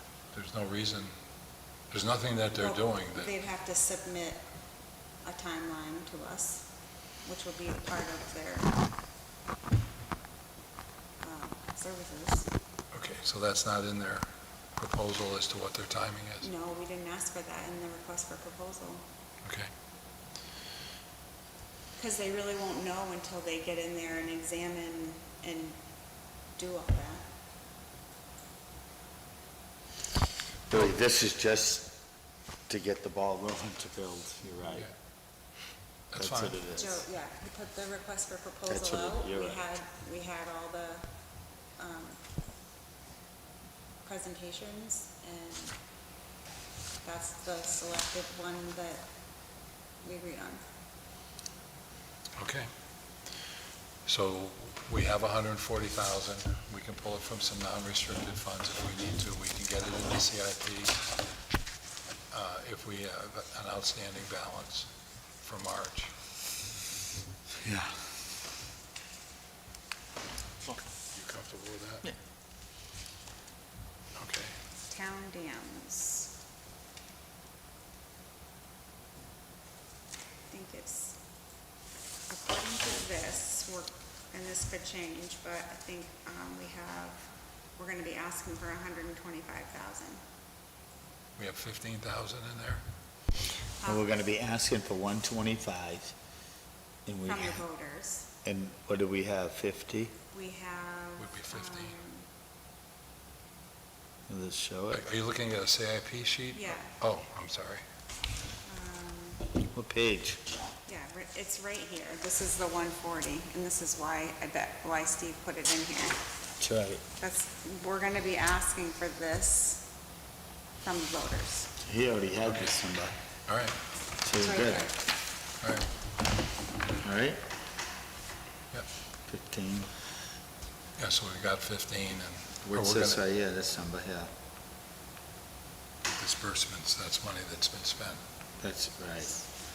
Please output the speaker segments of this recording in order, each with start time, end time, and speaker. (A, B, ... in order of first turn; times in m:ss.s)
0:00.3-0:01.1 A
0:01.9-0:03.3 A
0:02.6-0:04.4 B
0:05.2-0:06.7 B
0:07.2-0:08.7 B
0:11.2-0:12.5 B
0:12.9-0:16.5 A
0:16.4-0:19.0 B
0:19.4-0:19.7 A
0:22.0-0:25.8 B
0:26.6-0:27.2 B
0:30.7-0:32.0 C
0:32.7-0:34.9 C
0:36.1-0:36.6 A
0:36.2-0:37.0 C
0:36.8-0:41.1 B
0:38.7-0:39.6 C
0:41.8-0:42.2 B
0:44.0-0:45.8 B
0:47.0-0:49.0 B
0:50.0-0:50.6 B
0:52.4-0:52.7 A
0:54.1-1:01.0 A
1:02.3-1:04.9 A
1:05.4-1:06.1 A
1:07.6-1:08.0 C
1:10.7-1:12.0 A
1:14.2-1:14.5 A
1:14.9-1:16.3 B
1:20.5-1:21.2 B
1:22.3-1:30.2 B
1:31.4-1:32.8 A
1:33.8-1:34.1 B
1:33.8-1:36.2 C
1:37.1-1:37.7 C
1:37.2-1:38.3 B
1:38.4-1:40.2 C
1:40.3-1:42.3 B
1:41.2-1:42.0 A
1:44.3-1:45.0 C
1:44.9-1:47.8 A
1:46.5-1:46.9 B
1:48.7-1:49.5 B
1:49.6-1:50.4 C
1:50.9-1:56.2 B
1:56.6-1:57.0 C
1:57.2-1:59.9 B
2:00.8-2:01.7 B
2:01.8-2:03.2 C
2:03.5-2:03.8 A
2:04.2-2:04.9 C
2:04.4-2:05.0 B
2:05.6-2:05.9 A
2:07.0-2:07.4 C
2:09.3-2:09.9 C
2:11.0-2:13.2 A
2:12.7-2:14.3 C
2:16.1-2:18.2 A
2:18.6-2:19.4 C